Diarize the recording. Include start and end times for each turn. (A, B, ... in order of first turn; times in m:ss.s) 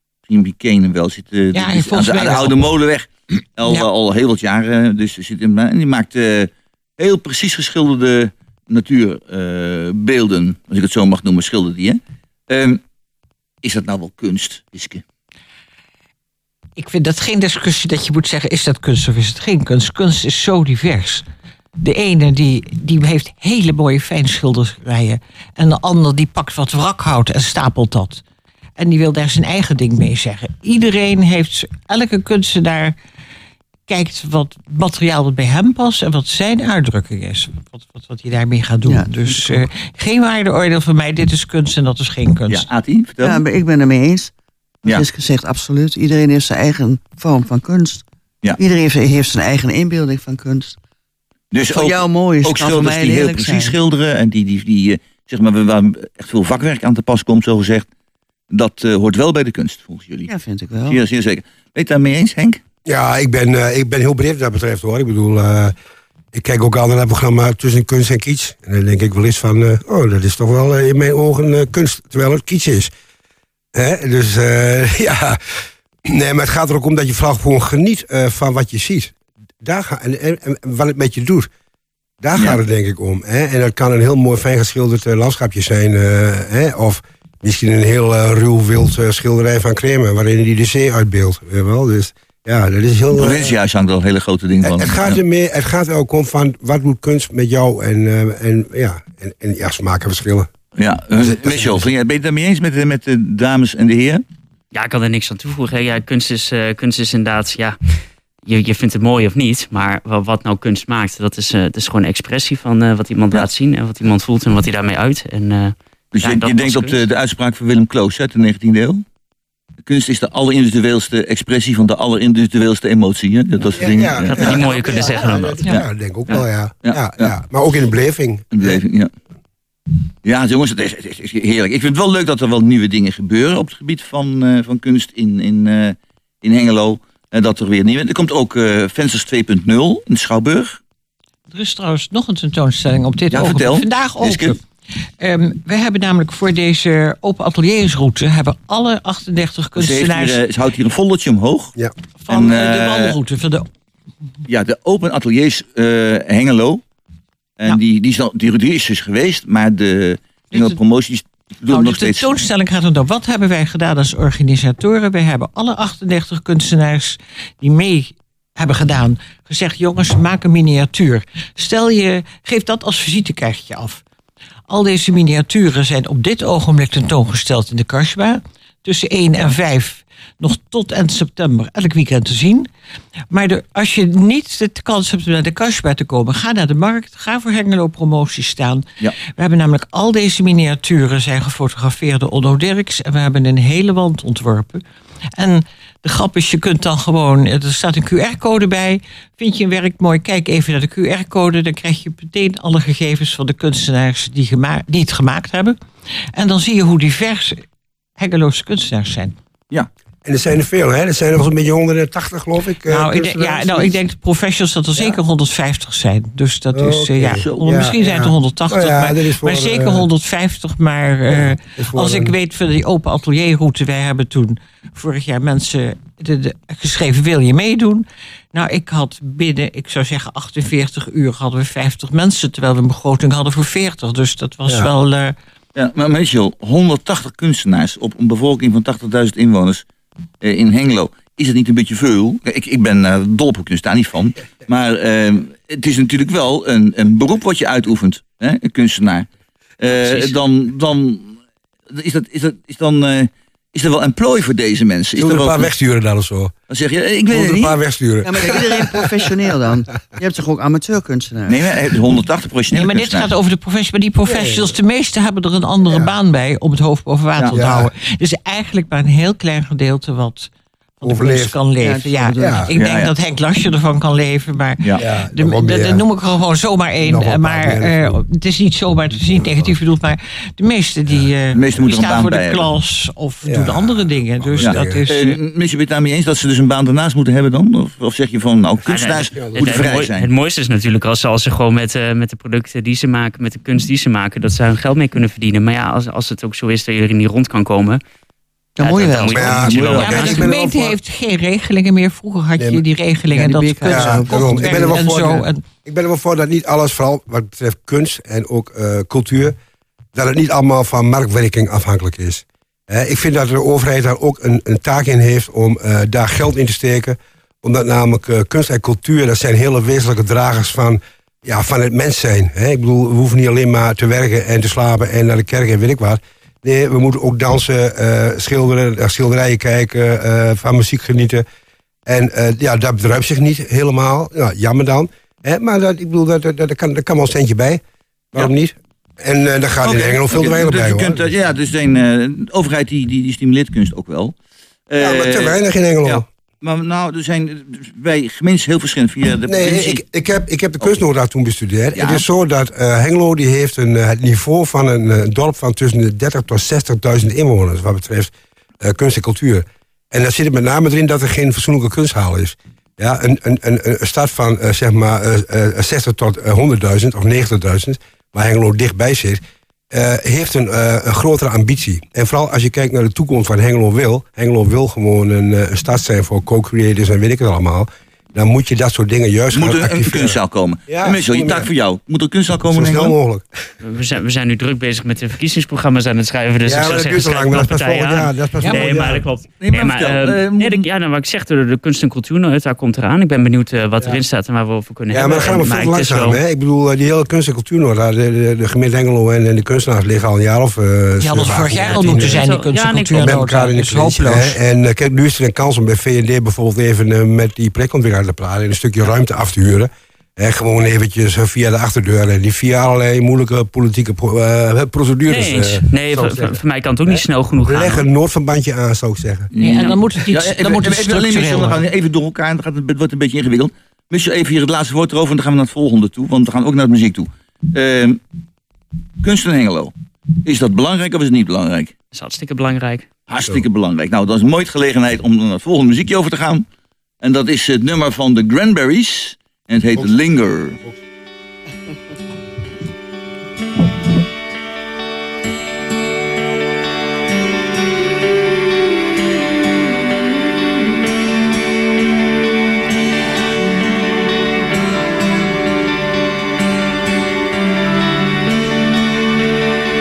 0:00.3-0:12.8 A
0:01.5-0:02.7 B
0:13.6-0:15.0 A
0:16.8-0:21.2 B
0:21.8-0:28.2 B
0:28.8-0:33.0 B
0:33.9-0:42.7 B
0:38.8-0:39.7 C
0:42.5-0:43.4 A
0:43.2-0:44.3 C
0:44.8-0:48.0 C
0:48.6-0:50.8 C
0:51.5-0:57.9 A
0:51.6-0:53.8 C
0:58.5-1:00.3 A
1:00.3-1:01.0 C
1:00.8-1:02.6 A
1:02.9-1:05.8 D
1:06.3-1:12.9 D
1:13.8-1:15.4 D
1:16.0-1:21.5 D
1:22.2-1:33.6 D
1:33.2-1:35.2 A
1:34.6-1:40.5 D
1:40.8-1:44.2 A
1:41.2-1:41.9 D
1:44.7-1:47.8 E
1:48.5-1:57.0 E
1:56.1-1:59.0 A
1:59.8-2:04.7 A
2:03.8-2:08.8 D
2:04.2-2:06.4 E
2:05.7-2:07.4 A
2:08.5-2:09.1 A
2:10.2-2:20.8 A
2:21.5-2:24.6 B
2:23.3-2:24.6 A
2:25.2-2:30.4 B
2:29.8-2:31.8 A
2:32.2-2:33.7 B
2:32.3-2:33.2 A
2:34.5-2:36.8 A
2:37.6-2:42.4 A
2:40.5-2:40.8 B
2:41.7-2:54.0 B
2:54.7-3:02.7 B
3:03.3-3:14.8 B
3:15.4-3:25.8 B
3:26.3-3:27.6 B
3:28.2-3:29.4 B
3:30.2-3:34.0 D
3:32.9-3:55.4 B
3:36.7-3:40.1 D
3:37.4-3:37.8 A
3:41.3-3:42.3 D
3:55.8-3:59.8 A
4:00.4-4:09.3 A
4:09.8-4:11.4 A
4:11.9-4:15.7 A
4:15.2-4:16.5 D
4:16.7-4:17.8 A
4:17.3-4:19.1 D
4:18.2-4:21.7 C
4:21.5-4:23.3 A
4:22.7-4:45.4 B
4:24.3-4:24.7 D
4:25.9-4:26.1 D
4:27.5-4:27.9 D
4:31.0-4:31.6 D
4:31.8-4:32.7 C
4:32.4-4:32.7 D
4:32.8-4:33.1 A
4:35.0-4:36.0 D
4:37.0-4:38.2 D
4:39.3-4:39.7 D
4:41.5-4:42.7 A
4:43.4-4:45.0 D
4:44.6-4:50.3 A
4:48.9-4:58.0 E
4:49.3-4:49.8 D
4:58.8-5:00.0 C
4:58.8-5:00.5 E
4:59.3-5:01.0 D
4:59.5-5:00.3 A
5:00.0-5:05.6 B
5:03.3-5:05.1 C
5:03.9-5:09.6 D
5:10.1-5:31.4 D
5:32.1-5:37.8 D
5:38.3-5:41.3 D
5:39.8-5:44.4 A
5:44.9-5:50.0 A
5:45.0-5:46.2 D
5:49.5-6:20.4 D
5:51.9-5:52.2 A
6:19.5-6:23.2 A
6:20.9-6:21.7 D
6:22.7-6:23.5 D
6:23.8-6:36.4 E
6:26.6-6:29.2 D
6:29.6-6:30.9 A
6:35.1-6:42.5 D
6:41.2-6:44.6 B
6:41.5-6:43.5 E
6:43.2-6:59.5 D
6:55.3-6:58.0 E
6:59.5-7:08.2 A
6:59.6-7:01.8 B
6:59.6-7:00.0 E
7:09.2-7:09.9 A
7:10.4-7:11.9 A
7:12.1-7:13.1 E
7:13.3-7:16.6 A
7:17.2-7:20.8 A